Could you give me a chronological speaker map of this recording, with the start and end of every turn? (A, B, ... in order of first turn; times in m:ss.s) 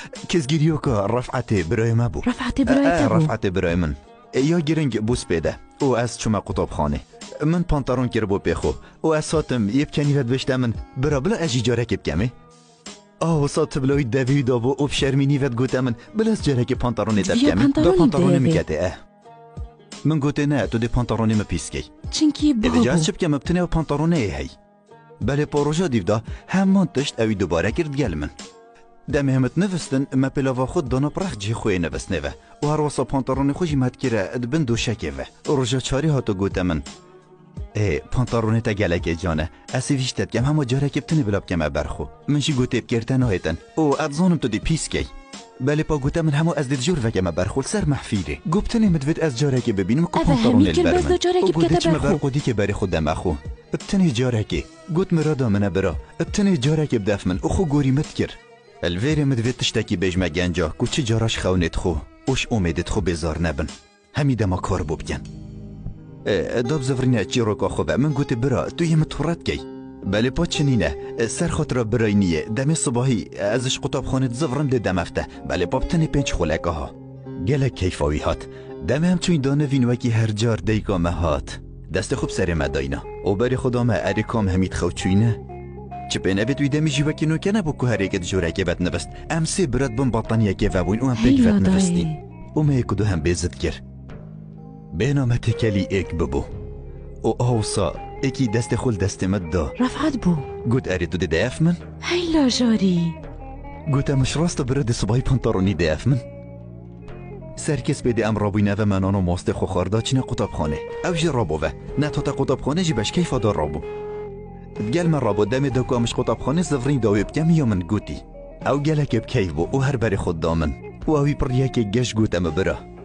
0:00.2-0:12.3 A
0:02.2-0:03.3 B
0:13.2-0:19.0 A
0:17.2-0:18.6 B
0:20.0-0:21.9 A
0:22.1-0:23.1 B
0:22.6-0:24.5 A
0:25.2-0:28.3 A
0:29.1-0:36.8 A
0:37.7-0:45.1 A
0:45.6-1:05.2 A
0:50.1-0:52.2 B
1:06.2-1:25.4 A
1:26.1-1:33.8 A
1:31.1-1:32.2 B
1:34.9-1:36.5 A
1:37.2-1:39.8 A
1:39.8-1:40.5 B
1:40.6-1:41.8 A
1:42.0-1:43.2 B
1:43.9-1:46.2 A
1:47.6-1:53.8 A
1:54.8-2:02.8 A